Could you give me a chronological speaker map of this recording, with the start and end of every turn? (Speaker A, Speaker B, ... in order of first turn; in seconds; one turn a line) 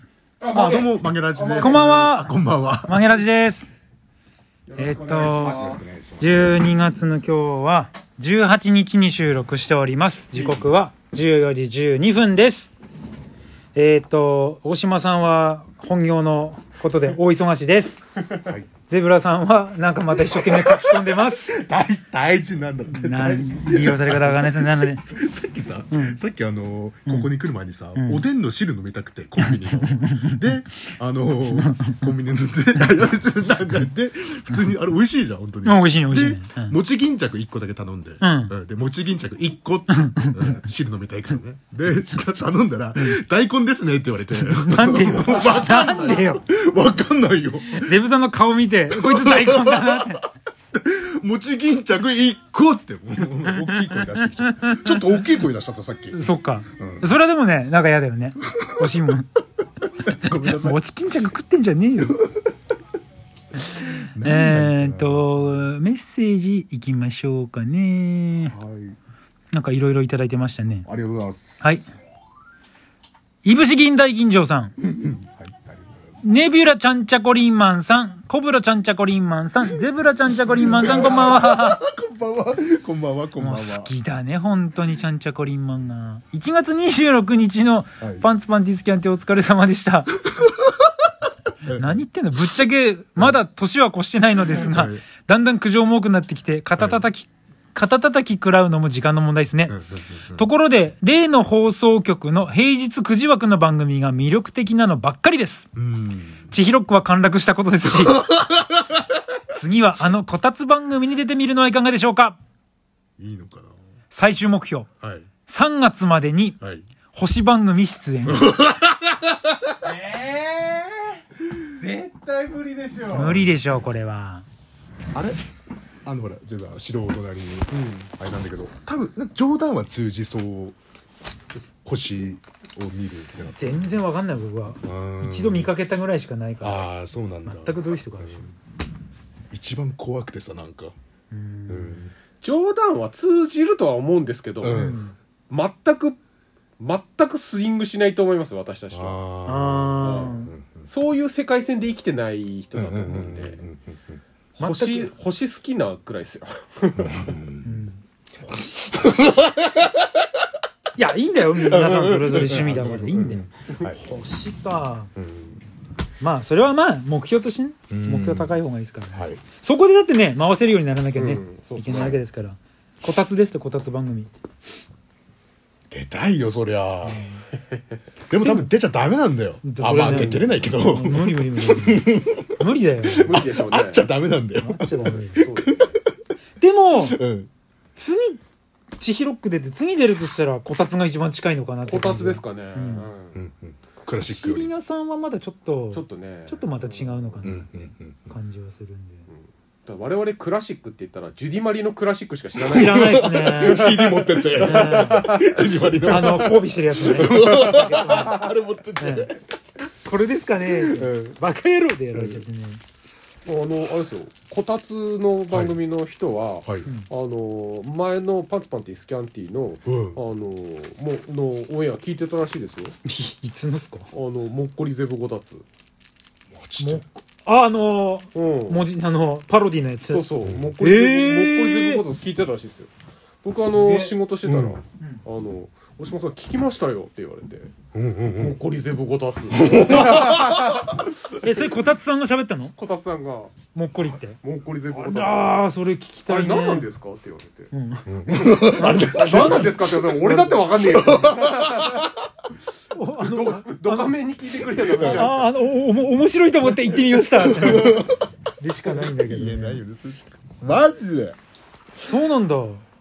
Speaker A: 0.4-1.9
Speaker B: 0.5-3.1
Speaker C: 1.6-3.7
Speaker A: 4.7-5.8
Speaker C: 4.8-5.6
Speaker B: 5.4-6.6
Speaker C: 6.2-12.7
Speaker A: 10.3-10.7
Speaker C: 13.7-18.0
Speaker C: 18.9-21.6
Speaker B: 20.3-48.0
Speaker C: 22.9-25.0
Speaker C: 25.9-26.2
Speaker C: 28.0-28.2
Speaker C: 29.4-30.4
Speaker C: 31.6-32.0
Speaker C: 35.6-36.8
Speaker C: 38.2-38.5
Speaker C: 40.0-40.6
Speaker C: 44.4-46.4
Speaker C: 47.7-50.2
Speaker B: 48.9-56.2
Speaker C: 54.6-55.0
Speaker C: 56.1-59.3
Speaker B: 56.8-57.1
Speaker B: 58.6-59.0
Speaker B: 60.0-60.8
Speaker C: 60.2-62.2
Speaker B: 64.0-65.6
Speaker C: 64.2-68.5
Speaker B: 68.5-69.0
Speaker C: 69.5-70.9
Speaker B: 70.9-71.8
Speaker C: 71.6-71.9
Speaker C: 73.4-74.8
Speaker B: 74.8-76.2
Speaker C: 76.2-81.8
Speaker B: 80.6-83.9
Speaker C: 83.4-90.2
Speaker B: 88.0-88.3
Speaker B: 90.3-90.9
Speaker B: 91.7-92.0
Speaker C: 91.7-99.8
Speaker B: 94.5-95.0
Speaker B: 96.8-97.0
Speaker B: 99.7-100.5
Speaker C: 100.3-105.7
Speaker B: 105.8-106.5
Speaker C: 106.5-108.2
Speaker B: 108.0-108.8
Speaker C: 109.5-112.4
Speaker B: 113.2-113.7
Speaker C: 114.1-114.9
Speaker B: 115.0-115.3
Speaker C: 115.5-116.6
Speaker C: 117.1-118.5
Speaker B: 118.3-119.6
Speaker A: 119.8-121.2
Speaker A: 121.8-123.4
Speaker C: 123.1-124.5
Speaker B: 123.2-123.5
Speaker B: 126.0-130.8
Speaker A: 127.7-128.1
Speaker B: 131.8-133.9
Speaker C: 133.5-136.9
Speaker B: 134.8-135.7
Speaker B: 136.6-138.5
Speaker C: 137.4-138.5
Speaker B: 139.5-140.9
Speaker C: 141.3-142.0
Speaker B: 141.7-142.1
Speaker A: 142.4-144.8
Speaker B: 144.6-145.0
Speaker C: 144.7-145.2
Speaker A: 145.5-146.2
Speaker A: 146.8-149.2
Speaker B: 148.9-150.9
Speaker C: 149.5-150.5
Speaker A: 150.0-153.6
Speaker B: 152.8-154.2
Speaker A: 154.6-157.3
Speaker C: 154.6-155.1
Speaker B: 157.0-157.8
Speaker C: 157.6-158.0
Speaker B: 158.4-160.3
Speaker C: 161.0-165.1
Speaker B: 161.5-164.0
Speaker B: 165.2-165.6
Speaker C: 166.2-174.3
Speaker B: 167.9-168.6
Speaker B: 169.1-169.4
Speaker A: 171.2-172.2
Speaker B: 175.9-177.3
Speaker C: 177.1-177.4
Speaker B: 178.3-186.0
Speaker C: 178.4-178.7
Speaker C: 179.6-183.3
Speaker A: 179.9-180.4
Speaker A: 183.1-184.1
Speaker C: 184.6-185.4
Speaker A: 185.3-185.9
Speaker C: 186.6-187.2
Speaker B: 186.9-187.5
Speaker C: 188.0-188.4
Speaker C: 189.0-193.1
Speaker A: 191.8-193.4
Speaker B: 193.3-194.7
Speaker C: 194.2-199.2
Speaker A: 195.9-197.4
Speaker B: 197.4-198.3
Speaker A: 199.3-205.9
Speaker C: 202.7-203.9
Speaker B: 202.7-209.4
Speaker C: 204.5-205.3
Speaker C: 206.0-208.4
Speaker A: 207.4-208.5
Speaker C: 209.0-209.4
Speaker C: 210.0-212.8
Speaker B: 210.7-211.4
Speaker B: 212.2-212.4
Speaker A: 213.5-223.0
Speaker B: 215.5-215.8
Speaker B: 219.9-220.2
Speaker C: 223.1-224.1
Speaker A: 224.1-225.7
Speaker B: 226.5-227.1
Speaker C: 226.8-230.3
Speaker A: 228.3-228.9
Speaker A: 230.1-232.9
Speaker C: 230.8-232.0
Speaker A: 233.4-237.7
Speaker C: 233.8-234.1
Speaker B: 234.4-234.8
Speaker B: 237.9-238.6
Speaker A: 238.3-241.5
Speaker B: 239.5-240.6
Speaker C: 241.4-242.8
Speaker A: 242.8-243.6
Speaker C: 243.7-244.4
Speaker A: 244.4-245.7
Speaker C: 244.9-246.9
Speaker A: 246.3-247.7
Speaker C: 247.7-250.6
Speaker B: 248.1-249.9
Speaker A: 248.8-252.1
Speaker B: 250.9-252.1
Speaker C: 252.9-254.1
Speaker A: 253.2-255.5
Speaker B: 254.9-255.3
Speaker C: 255.0-259.8
Speaker B: 257.3-258.3
Speaker B: 259.1-261.4
Speaker C: 262.0-262.8